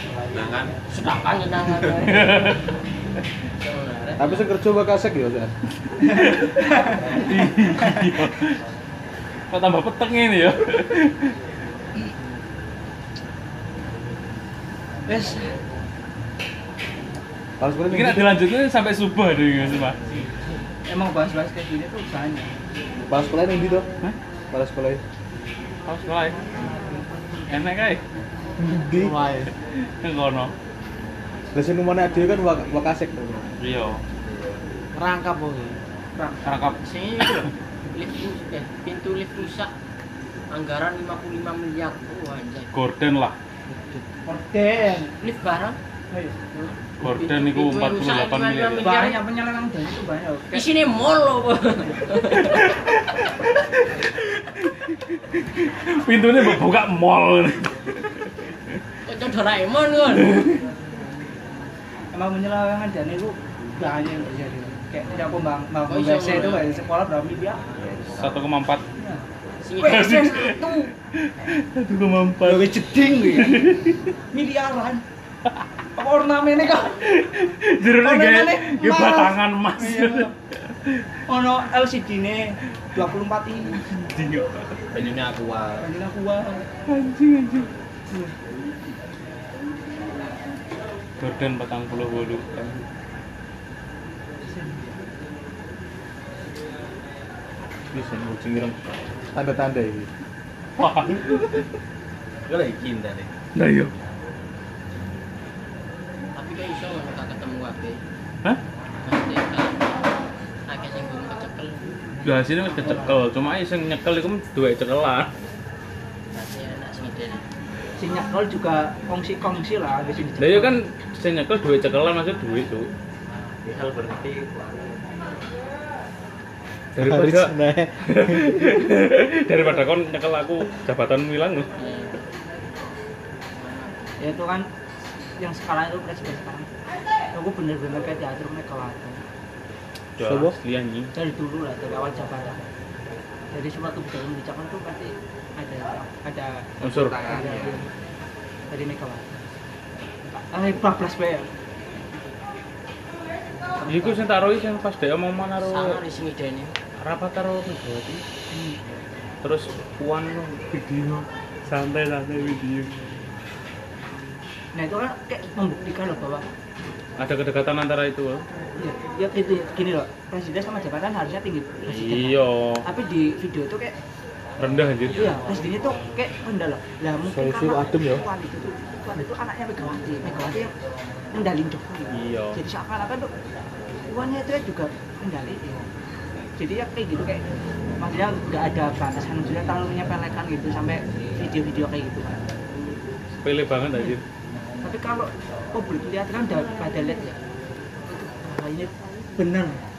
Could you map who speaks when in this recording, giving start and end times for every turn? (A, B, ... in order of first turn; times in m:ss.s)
0:00.3-0:00.7 A
0:00.8-0:02.4 B
0:02.0-0:02.6 C
0:03.6-0:04.4 B
0:04.2-0:05.5 D
0:06.1-0:06.5 C
0:06.2-0:07.2 E
0:07.1-0:08.6 C
0:09.5-0:11.3 C
0:15.0-0:15.5 E
0:17.6-0:18.4 D
0:17.9-0:20.0 C
0:20.9-0:22.5 E
0:23.0-0:23.9 D
0:24.5-0:25.0 D
0:25.8-0:26.4 C
0:27.5-0:28.0 C
0:28.6-0:29.2 D
0:28.9-0:29.5 F
0:30.0-0:30.5 C
0:31.5-0:33.5 D
0:33.6-0:34.0 C
0:34.9-0:35.8 F
0:36.2-0:36.4 E
0:36.4-0:36.8 C
0:36.8-0:39.7 B
0:40.5-0:42.7 B
0:42.7-0:43.3 C
0:43.7-0:44.0 F
0:44.2-0:45.1 E
0:45.2-0:45.8 B
0:46.1-0:46.4 E
0:46.5-0:49.2 B
0:47.0-0:49.0 C
0:48.8-0:50.7 E
0:50.5-0:52.7 B
0:55.5-0:58.3 C
0:59.0-1:00.4 B
1:00.3-1:00.6 C
1:02.1-1:07.6 E
1:05.8-1:06.8 B
1:07.8-1:08.2 A
1:08.1-1:08.8 C
1:09.0-1:09.2 E
1:09.6-1:10.1 B
1:09.8-1:10.9 E
1:09.8-1:14.0 C
1:12.4-1:13.8 E
1:14.3-1:15.0 E
1:16.0-1:17.1 E
1:17.0-1:20.3 C
1:18.0-1:20.3 E
1:21.3-1:23.8 E
1:23.8-1:24.8 C
1:24.9-1:25.9 A
1:25.8-1:26.6 E
1:26.9-1:27.7 C
1:28.1-1:28.4 E
1:31.2-1:32.8 C
1:34.5-1:35.0 E
1:37.9-1:38.8 D
1:39.3-1:40.1 D
1:40.8-1:41.3 C
1:42.5-1:43.3 A
1:43.6-1:43.9 C
1:46.4-1:48.0 B
1:49.0-1:50.0 B
1:50.7-1:51.9 B
1:52.2-1:55.3 C
1:52.8-1:53.2 E
1:56.3-1:57.4 B
1:58.0-2:00.8 E
2:00.4-2:02.9 C
2:03.6-2:04.3 A
2:04.2-2:04.9 F
2:06.9-2:11.7 C
2:07.0-2:08.8 D
2:11.8-2:12.2 B
2:13.5-2:14.3 B
2:14.2-2:14.7 E
2:15.4-2:16.7 E
2:17.3-2:19.2 E
2:20.2-2:21.1 C
2:20.2-2:20.6 D
2:21.1-2:22.6 E
2:23.5-2:27.8 E
2:26.8-2:27.3 C
2:26.9-2:27.8 F
2:28.7-2:29.3 E
2:30.5-2:31.5 E
2:33.8-2:34.2 E
2:33.9-2:36.0 C
2:35.6-2:36.7 B
2:37.0-2:38.2 C
2:38.5-2:38.8 E
2:39.4-2:43.0 C
2:44.7-2:46.4 E
2:47.2-2:48.4 C
2:48.8-2:53.9 E
2:51.9-2:52.8 C
2:54.6-2:55.4 C
2:55.1-3:00.7 E
2:57.2-2:58.2 D
3:01.3-3:03.3 E
3:02.1-3:02.6 C
3:04.1-3:05.8 E
3:06.6-3:07.5 E
3:08.0-3:12.4 E
3:13.4-3:14.2 C
3:14.8-3:17.4 E
3:18.1-3:19.8 E